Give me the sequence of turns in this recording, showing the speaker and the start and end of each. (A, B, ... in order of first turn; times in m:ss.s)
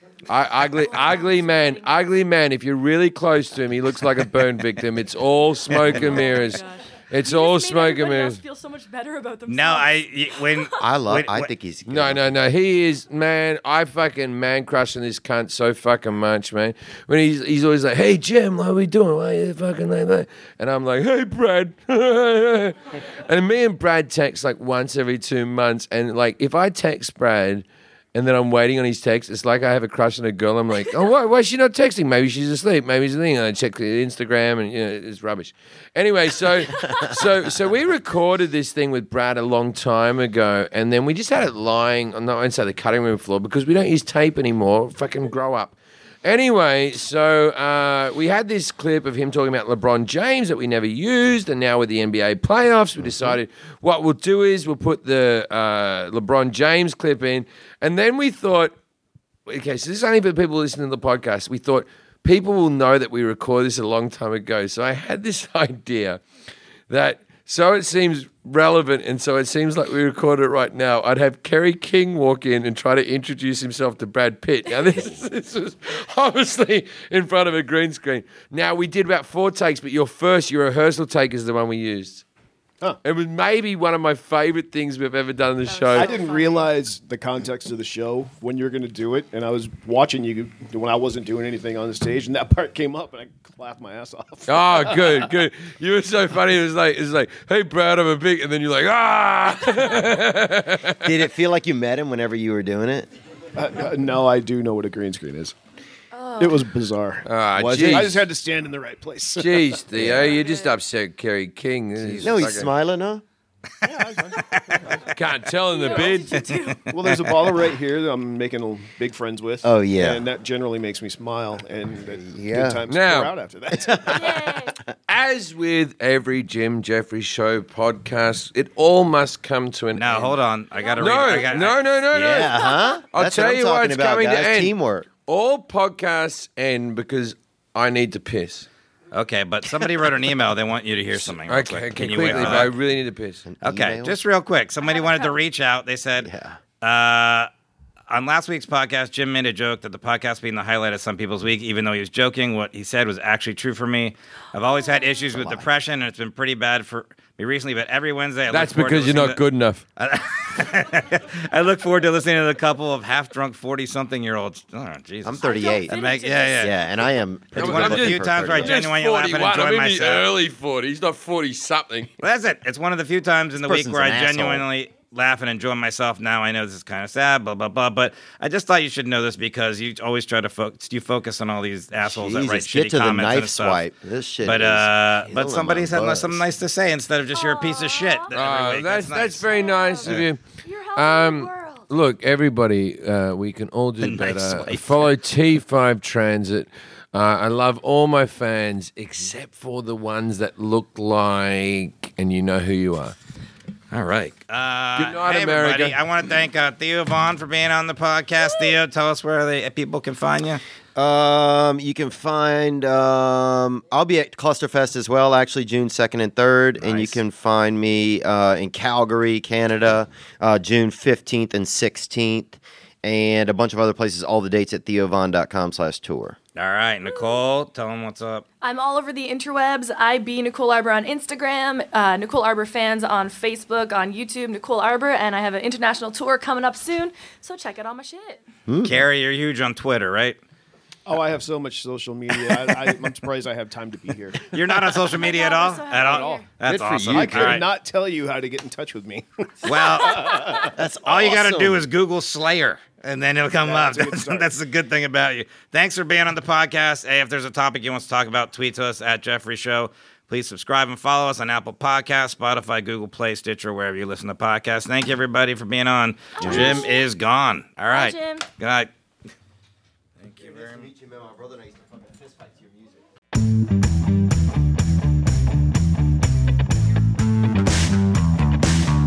0:00.3-0:08.4 A
0:00.8-0:02.0 B
0:05.7-0:06.0 C
0:05.8-0:10.8 B
0:09.5-0:11.5 C
0:10.8-0:12.4 D
0:11.9-0:58.7 A
0:53.0-0:53.3 D
0:59.5-1:06.2 A
1:06.9-1:22.2 A
1:23.0-1:26.1 A
1:25.7-1:26.7 B
1:25.9-1:35.3 E
1:34.5-1:41.1 A
1:41.0-1:43.1 D
1:43.6-1:45.6 E
1:46.1-1:46.7 B
1:46.4-1:49.8 E
1:47.3-1:48.2 A
1:47.7-1:48.0 D
1:49.4-1:52.7 A
1:49.9-1:50.4 D
1:50.2-1:50.7 B
1:52.2-1:53.2 D
1:53.8-1:55.0 E
1:54.4-1:54.8 C
1:55.0-1:56.5 A
1:55.7-1:56.9 B
1:56.9-2:04.4 E
1:59.6-2:00.3 D
2:02.2-2:02.8 D
2:02.9-2:03.3 A
2:03.7-2:04.7 D
2:04.1-2:04.8 B
2:05.1-2:10.4 A
2:10.0-2:12.4 C
2:10.8-2:11.8 B
2:11.0-2:12.6 A
2:12.1-2:15.1 D
2:12.6-2:13.0 B
2:13.1-2:14.8 A
2:15.3-2:18.7 A
2:19.1-2:22.7 C
2:21.4-2:23.4 A
2:22.4-2:22.7 D
2:23.5-2:24.2 D
2:23.6-2:27.5 C
2:24.8-2:25.4 B
2:26.2-2:26.6 D
2:28.1-2:39.4 C
2:34.9-2:35.2 B
2:35.4-2:35.6 D
2:38.5-2:39.8 A
2:40.0-2:46.8 C
2:45.2-2:48.8 D
2:45.4-2:46.8 B
2:47.5-2:50.3 C
2:47.5-2:52.1 A
2:52.2-3:03.8 C
2:53.6-2:54.7 D
3:02.0-3:06.4 D
3:04.4-3:09.4 C
3:07.3-3:08.4 B
3:08.3-3:10.4 A
3:09.4-3:11.9 B
3:11.0-3:23.2 A
3:14.0-3:15.1 C
3:23.9-3:30.6 C
3:25.0-3:26.0 A
3:31.0-3:46.4 D
3:36.8-3:37.2 C
3:46.6-3:48.5 C
3:47.1-3:47.4 B
3:48.6-3:58.4 B
3:58.7-3:59.0 D
3:58.8-4:00.4 C
4:01.1-4:05.0 E
4:04.5-4:07.7 C
4:05.1-4:06.5 B
4:06.0-4:06.4 E
4:06.6-4:07.6 D
4:07.1-4:10.8 E
4:09.6-4:28.9 C
4:10.2-4:10.6 B
4:10.7-4:11.8 D
4:13.6-4:14.5 E
4:26.4-4:27.1 B
4:26.4-4:26.8 D
4:27.9-4:28.4 B
4:30.2-4:30.9 C
4:30.3-4:33.0 D